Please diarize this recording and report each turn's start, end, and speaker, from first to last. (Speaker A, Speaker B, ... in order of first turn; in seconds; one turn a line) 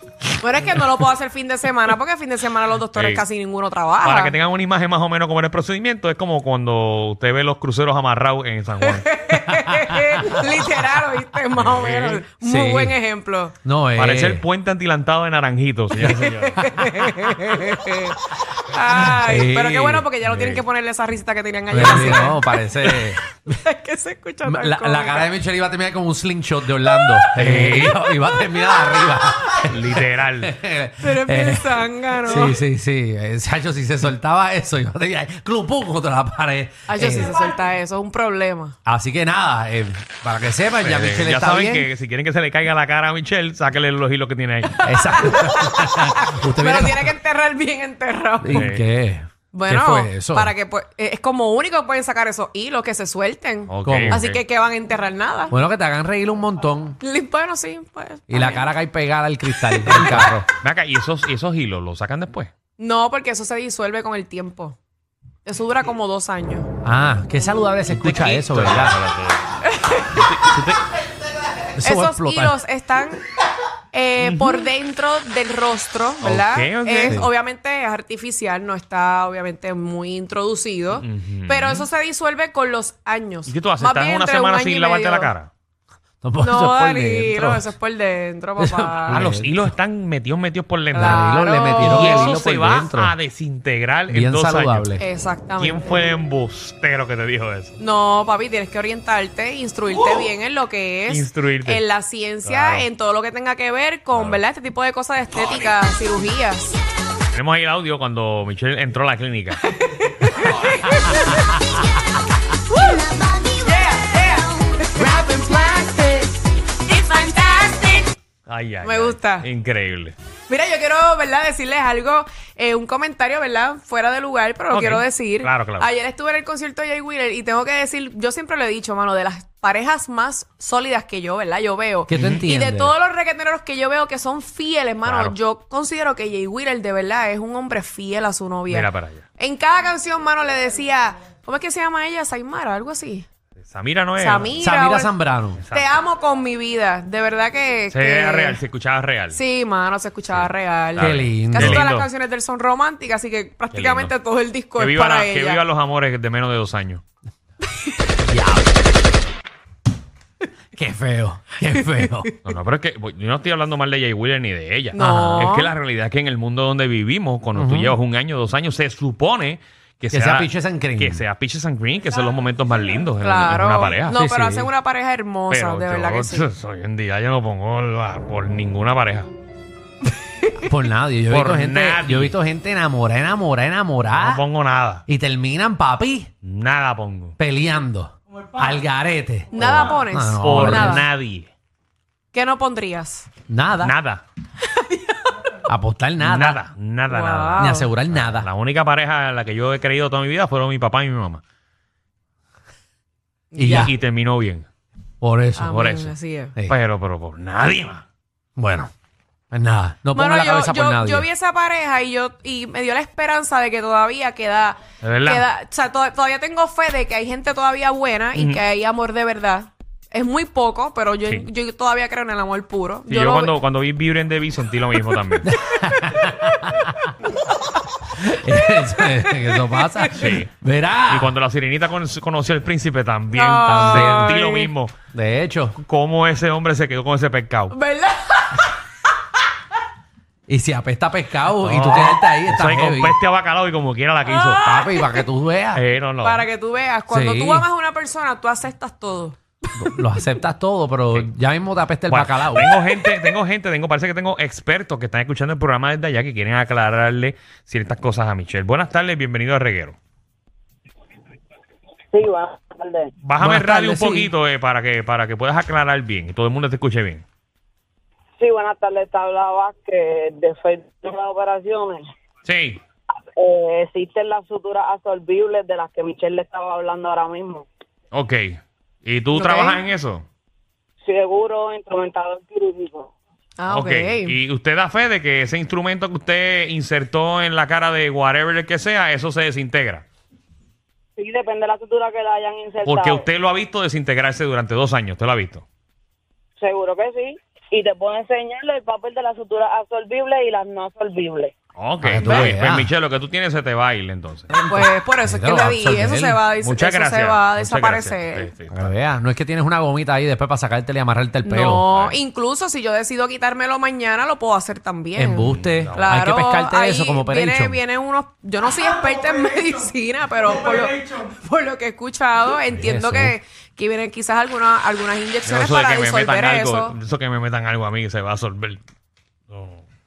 Speaker A: 0.4-4.3
Speaker B: 2.9-3.2
Speaker B: 4.0-9.1
Speaker A: 8.8-13.5
Speaker C: 9.5-10.4
Speaker B: 11.5-12.2
Speaker C: 12.4-13.0
Speaker C: 13.6-14.4
Speaker B: 13.9-16.7
Speaker A: 16.0-22.4
Speaker C: 16.5-17.1
Speaker C: 19.1-20.1
Speaker B: 20.2-20.6
Speaker C: 21.7-23.2
Speaker B: 21.8-22.1
Speaker A: 23.4-25.3
Speaker C: 24.4-37.4
Speaker B: 27.3-28.0
Speaker A: 28.4-28.7
Speaker B: 29.7-30.5
Speaker A: 31.0-32.6
Speaker A: 36.9-38.8
Speaker C: 38.8-41.9
Speaker B: 40.8-44.8
Speaker C: 44.8-47.1
Speaker A: 44.8-48.7
Speaker C: 48.4-50.5
Speaker B: 48.5-48.8
Speaker A: 49.5-55.5
Speaker B: 53.7-54.4
Speaker C: 53.8-54.2
Speaker C: 55.5-57.0
Speaker A: 57.0-58.7
Speaker C: 58.3-60.5
Speaker A: 59.7-60.2
Speaker B: 60.1-62.5
Speaker A: 62.8-64.8
Speaker A: 65.4-66.7
Speaker C: 66.8-69.0
Speaker B: 67.9-69.5
Speaker A: 69.6-70.3
Speaker B: 70.1-70.8
Speaker C: 71.7-72.6
Speaker A: 71.8-73.2
Speaker A: 73.9-85.3
Speaker B: 74.2-74.7
Speaker B: 76.2-77.2
Speaker C: 77.0-77.3
Speaker B: 81.0-81.9
Speaker B: 83.5-85.5
Speaker C: 86.2-87.7
Speaker A: 86.4-89.3
Speaker C: 88.6-89.6
Speaker B: 89.1-94.9
Speaker A: 90.9-92.3
Speaker C: 91.0-93.1
Speaker C: 94.1-95.0
Speaker A: 95.0-96.0
Speaker B: 95.6-97.7
Speaker A: 97.8-106.8
Speaker B: 101.1-101.8
Speaker B: 102.4-102.8
Speaker B: 104.1-104.4
Speaker B: 107.3-109.6
Speaker A: 109.6-111.7
Speaker A: 112.7-118.1
Speaker B: 118.5-120.1
Speaker A: 118.8-119.5
Speaker A: 120.5-143.3
Speaker B: 124.7-125.9
Speaker C: 132.1-132.9
Speaker B: 132.1-132.4
Speaker B: 135.0-135.3
Speaker B: 138.7-139.2
Speaker B: 143.6-144.7
Speaker A: 144.2-145.2
Speaker C: 144.6-145.6
Speaker B: 145.6-146.0
Speaker A: 145.7-148.6
Speaker B: 147.9-149.4
Speaker A: 149.3-155.6
Speaker B: 150.3-152.1
Speaker C: 151.0-151.8
Speaker B: 153.7-154.1
Speaker B: 154.8-157.0
Speaker C: 158.2-158.7
Speaker C: 160.7-162.3
Speaker A: 161.8-162.3
Speaker B: 162.4-174.2
Speaker A: 164.9-165.7
Speaker C: 165.0-165.4
Speaker C: 167.5-168.0
Speaker C: 170.1-171.2
Speaker A: 173.2-176.5
Speaker C: 174.1-174.7
Speaker B: 175.5-179.3
Speaker A: 180.4-180.7
Speaker C: 180.6-184.4
Speaker B: 181.3-182.4
Speaker B: 184.1-185.0
Speaker C: 185.1-186.3
Speaker B: 186.4-187.3
Speaker C: 187.4-191.0
Speaker A: 189.5-191.0
Speaker B: 190.4-191.5
Speaker A: 192.3-193.3
Speaker C: 193.5-193.9
Speaker B: 193.8-194.2
Speaker A: 194.7-195.5
Speaker C: 195.6-196.6
Speaker B: 196.2-201.4
Speaker A: 197.1-197.9
Speaker C: 197.6-198.5
Speaker C: 203.5-203.9
Speaker B: 203.6-204.7
Speaker C: 205.2-206.8
Speaker A: 205.6-206.5
Speaker B: 205.7-206.1
Speaker B: 206.6-208.0
Speaker C: 208.6-208.9
Speaker C: 209.5-211.3
Speaker A: 210.1-223.6
Speaker B: 215.0-215.5
Speaker B: 218.3-218.6
Speaker B: 223.1-225.5
Speaker C: 225.4-227.1
Speaker C: 228.1-231.3
Speaker A: 228.8-230.3
Speaker B: 230.1-230.5
Speaker B: 231.1-234.9
Speaker A: 233.3-234.7
Speaker C: 233.6-234.3
Speaker C: 235.1-235.8
Speaker B: 235.8-237.7
Speaker A: 237.7-238.8
Speaker C: 240.5-243.2
Speaker B: 241.6-244.6
Speaker A: 244.2-245.2
Speaker C: 244.6-245.8
Speaker B: 245.7-246.4
Speaker A: 246.2-249.9
Speaker C: 247.1-247.7
Speaker C: 249.8-252.7
Speaker B: 252.1-259.9
Speaker D: 262.1-263.1
Speaker B: 263.2-267.2
Speaker C: 263.4-264.3
Speaker D: 268.4-272.1
Speaker B: 272.4-272.8
Speaker D: 273.4-277.7
Speaker B: 278.1-280.2
Speaker A: 279.3-279.8
Speaker D: 281.0-283.1
Speaker A: 283.6-284.4
Speaker B: 283.7-290.0
Speaker D: 291.2-293.3
Speaker B: 292.8-295.6
Speaker D: 296.6-301.5
Speaker B: 301.8-304.5
Speaker C: 302.0-302.9
Speaker C: 304.5-306.4
Speaker A: 304.7-308.5
Speaker B: 306.6-308.9
Speaker C: 308.7-311.9
Speaker A: 311.4-326.9
Speaker B: 311.9-312.2
Speaker C: 315.1-317.8
Speaker B: 315.4-316.2
Speaker C: 322.7-323.4
Speaker B: 325.4-328.8
Speaker B: 329.5-329.8